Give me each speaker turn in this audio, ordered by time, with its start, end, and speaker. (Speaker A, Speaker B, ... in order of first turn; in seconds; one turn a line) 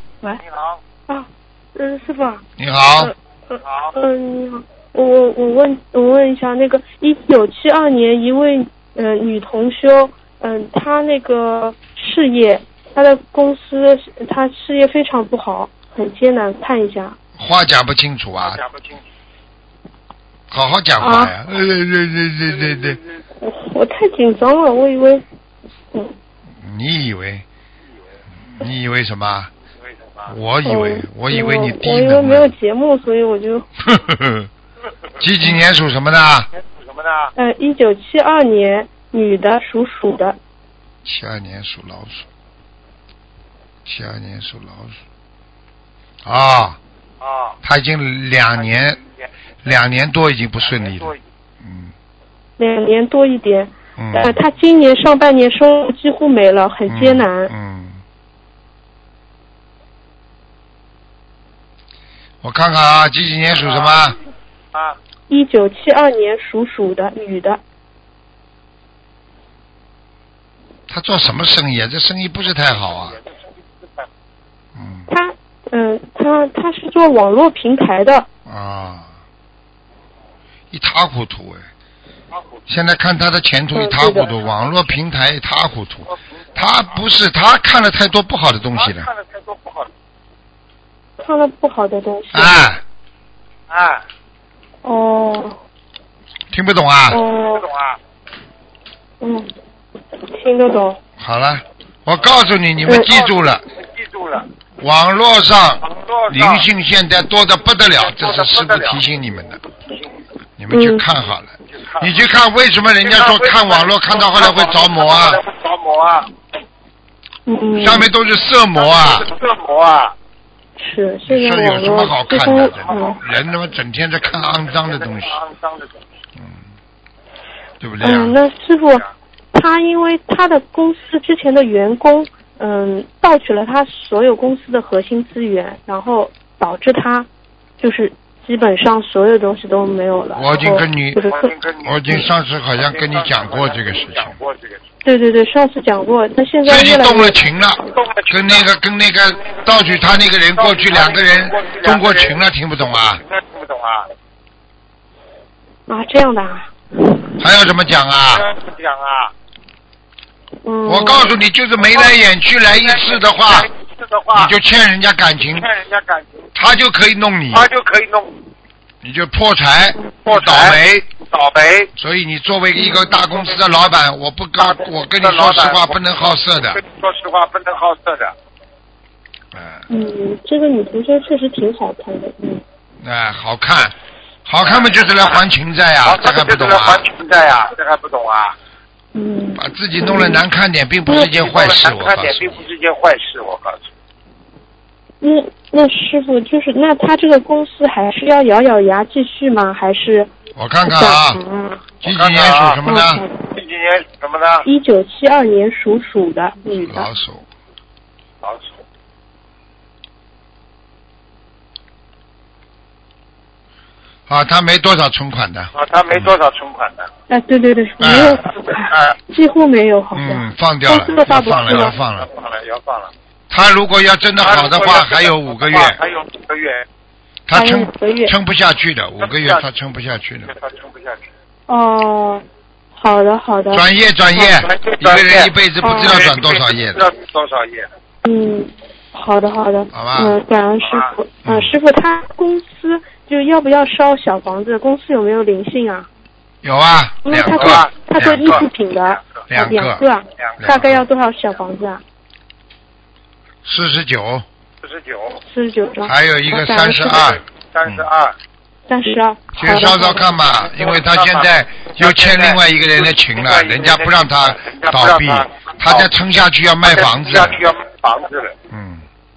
Speaker A: 0.4-0.8
Speaker B: 1.1-2.4
Speaker C: 2.6-3.1
Speaker B: 3.0-17.2
Speaker A: 3.6-3.9
Speaker C: 17.4-18.6
Speaker A: 18.4-18.9
Speaker C: 20.5-23.0
Speaker B: 21.0-21.3
Speaker B: 23.4-25.2
Speaker C: 26.6-27.4
Speaker C: 28.6-29.5
Speaker C: 30.3-32.5
Speaker B: 30.6-33.7
Speaker C: 33.8-34.5
Speaker C: 35.2-36.5
Speaker A: 36.8-37.3
Speaker B: 37.4-40.4
Speaker C: 41.0-42.3
Speaker C: 43.9-45.0
Speaker C: 46.2-46.8
Speaker A: 47.2-47.5
Speaker C: 47.6-49.0
Speaker C: 49.6-51.9
Speaker A: 50.7-51.2
Speaker B: 52.6-57.5
Speaker C: 54.0-54.4
Speaker C: 56.9-58.0
Speaker C: 62.4-64.2
Speaker B: 65.3-67.6
Speaker C: 70.9-73.2
Speaker C: 74.8-75.1
Speaker B: 75.1-78.3
Speaker C: 78.5-79.1
Speaker C: 80.7-81.7
Speaker C: 82.7-89.1
Speaker B: 83.7-84.3
Speaker A: 88.8-89.9
Speaker B: 91.2-92.7
Speaker C: 92.3-92.8
Speaker A: 93.7-94.0
Speaker B: 94.8-95.6
Speaker C: 96.5-97.2
Speaker B: 97.1-97.7
Speaker A: 97.5-98.0
Speaker B: 99.2-99.5
Speaker B: 100.3-101.0
Speaker C: 101.2-103.6
Speaker B: 102.8-103.1
Speaker A: 103.8-104.5
Speaker C: 104.8-109.6
Speaker A: 105.8-106.6
Speaker A: 108.0-109.0
Speaker C: 110.6-115.4
Speaker B: 110.7-111.0
Speaker A: 113.1-116.3
Speaker B: 117.5-118.1
Speaker C: 117.8-119.3
Speaker A: 118.8-120.1
Speaker B: 120.8-123.2
Speaker C: 121.3-125.4
Speaker A: 125.2-125.9
Speaker C: 126.4-126.6
Speaker C: 127.8-128.4
Speaker B: 128.0-137.3
Speaker B: 137.8-141.5
Speaker C: 140.3-141.2
Speaker A: 141.2-142.2
Speaker C: 141.8-144.3
Speaker A: 142.8-144.8
Speaker B: 145.0-147.4
Speaker C: 146.7-153.2
Speaker A: 147.9-148.7
Speaker A: 150.6-152.3
Speaker A: 153.2-154.1
Speaker B: 155.9-157.1
Speaker C: 157.4-158.5
Speaker A: 158.3-159.3
Speaker B: 160.6-161.4
Speaker C: 160.8-163.7
Speaker A: 162.9-164.5
Speaker C: 164.3-165.7
Speaker A: 165.6-166.4
Speaker C: 166.5-167.7
Speaker A: 167.5-168.3
Speaker C: 169.0-171.1
Speaker A: 170.3-171.9
Speaker C: 172.0-176.8
Speaker B: 172.8-173.1
Speaker A: 174.6-175.9
Speaker A: 176.7-178.3
Speaker C: 179.5-179.8
Speaker B: 179.9-182.6
Speaker C: 183.0-183.9
Speaker C: 184.4-187.1
Speaker A: 184.7-185.0
Speaker A: 186.1-188.5
Speaker B: 189.1-190.4
Speaker C: 189.6-192.7
Speaker A: 191.3-193.8
Speaker B: 195.2-200.3
Speaker C: 200.6-201.4
Speaker B: 200.8-201.9
Speaker C: 202.0-203.2
Speaker A: 202.1-202.8
Speaker B: 202.8-203.4
Speaker A: 203.5-204.6
Speaker B: 204.6-207.1
Speaker C: 206.8-207.4
Speaker C: 214.3-216.3
Speaker A: 215.8-217.1
Speaker B: 217.3-221.9
Speaker C: 218.0-218.4
Speaker C: 220.1-222.3
Speaker A: 222.2-223.1
Speaker C: 223.5-226.0
Speaker A: 224.4-226.8
Speaker C: 227.5-230.5
Speaker B: 227.5-228.3
Speaker A: 229.2-229.6
Speaker A: 230.5-231.2
Speaker B: 231.7-232.4
Speaker B: 232.9-233.8
Speaker C: 233.7-237.0
Speaker B: 234.3-234.6
Speaker A: 234.6-237.9
Speaker B: 235.8-236.2
Speaker B: 238.2-246.1
Speaker C: 239.9-240.4
Speaker C: 241.4-241.8
Speaker C: 246.6-248.6
Speaker B: 247.2-252.0
Speaker A: 247.6-247.9
Speaker C: 249.5-250.1
Speaker C: 250.6-251.0
Speaker C: 253.6-254.4
Speaker A: 254.8-255.4
Speaker B: 255.4-257.4
Speaker C: 256.0-258.1
Speaker A: 257.7-258.3
Speaker B: 258.9-260.4
Speaker C: 259.5-267.6
Speaker A: 260.8-266.1
Speaker A: 266.9-268.5
Speaker C: 268.7-269.0